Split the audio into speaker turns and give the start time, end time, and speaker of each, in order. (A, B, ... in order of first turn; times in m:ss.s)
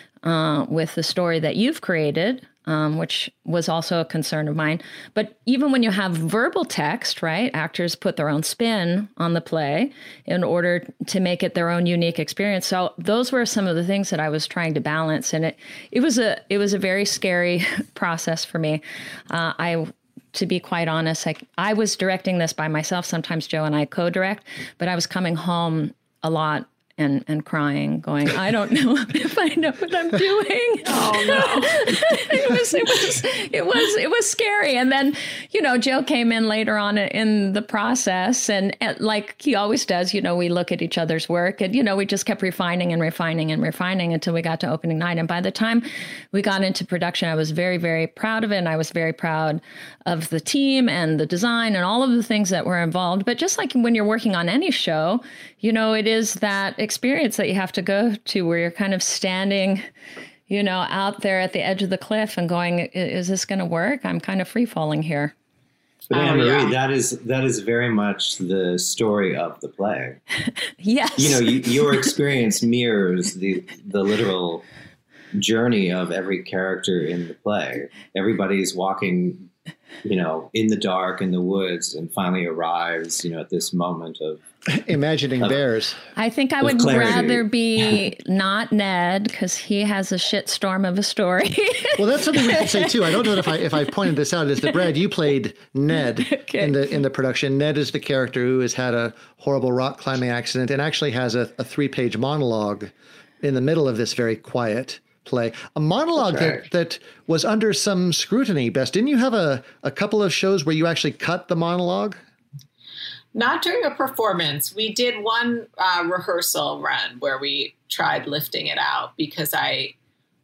0:00.2-0:59.8 A
0:30.9-0:31.8 B
1:00.5-1:05.4 A
1:06.1-1:10.2 C
1:06.1-1:06.8 B
1:10.8-1:12.0 A
1:11.2-1:14.6 C
1:15.4-1:19.5 C
1:20.0-1:24.4 C
1:24.7-1:26.0 D
1:26.2-1:33.2 A
1:26.6-1:28.0 C
1:32.0-1:52.2 D
1:36.3-1:36.7 A
1:46.2-1:46.6 C
1:53.4-1:59.9 B